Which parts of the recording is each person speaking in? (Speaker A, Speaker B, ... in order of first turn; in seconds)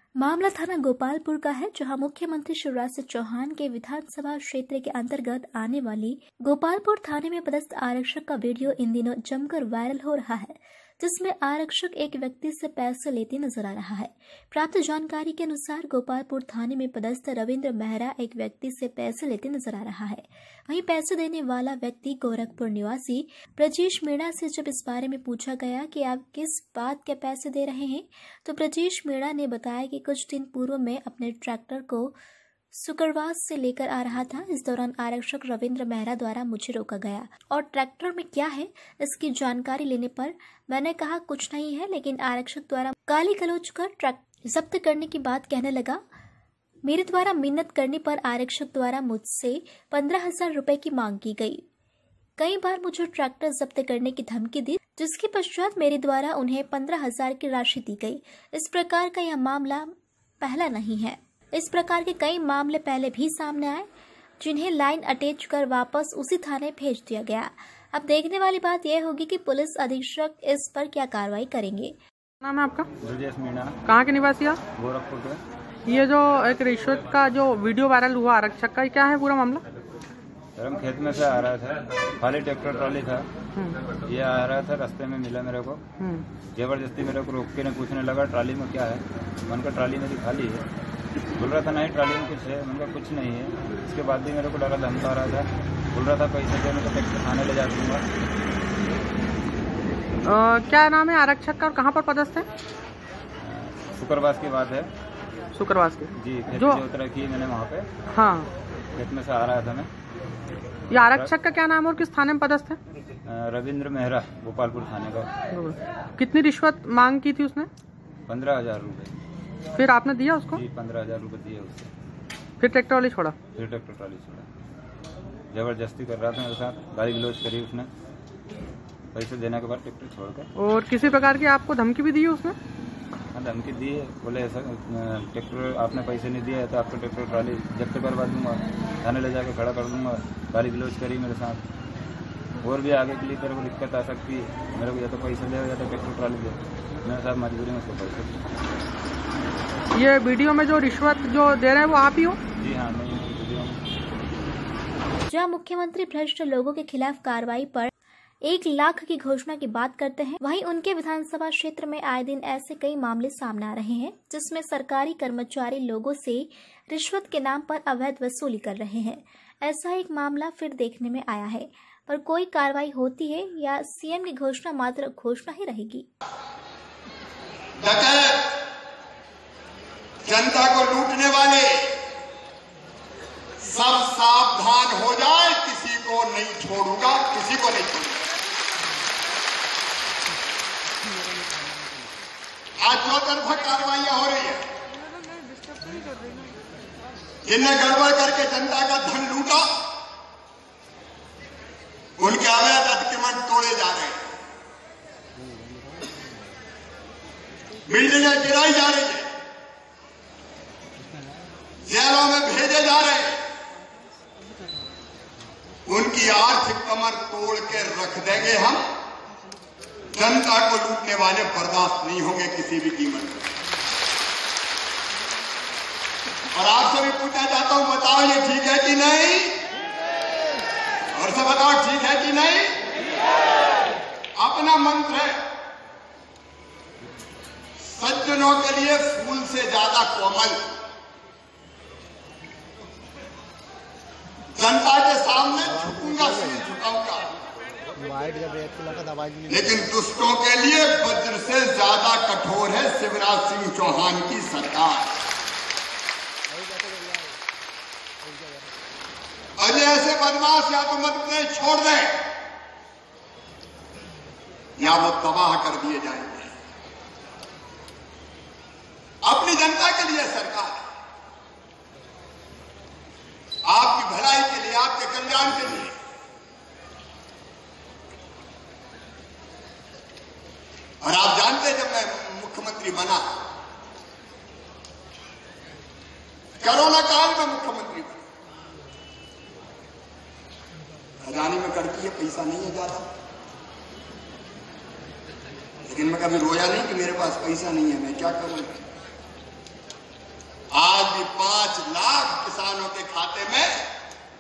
Speaker A: 0.2-32.2, 32.7-46.0, 46.8-51.6, 52.4-63.9, 64.4-72.0, 155.3-157.9, 158.4-176.1
Speaker B: 72.4-72.9, 73.9-74.6, 75.9-79.6, 83.6-83.8, 86.0-86.3, 100.2-102.5, 105.6-106.8, 108.1-108.5, 110.9-112.8, 115.5-117.7, 119.8-120.6, 122.6-123.3, 130.6-132.6, 149.9-152.4
Speaker C: 73.0-73.8, 74.8-75.4, 80.6-83.3, 84.0-85.8, 86.5-90.7, 91.4-98.0, 103.4-104.9, 106.2-107.9, 109.0-109.9, 110.9-111.3, 113.3-115.3, 118.3-119.1, 120.5-121.9, 123.5-124.5, 125.5-127.9, 129.1-130.5, 133.3-141.6, 142.6-148.4, 152.6-153.8
Speaker D: 177.8-178.5, 180.2-181.9, 183.6-188.2, 192.8-194.7, 197.4-199.7, 202.2-204.3, 207.9-209.3, 211.8-213.4, 215.9-218.8, 220.1-223.5, 226.5-229.6, 231.1-232.8, 234.4-235.4, 237.8-240.6, 244.6-247.3, 249.5-255.2, 259.6-262.2, 264.8-266.5, 269.2-270.9, 273.7-276.0, 281.0-283.4, 286.6-288.3, 291.2-293.1, 295.9-298.9, 300.7-303.8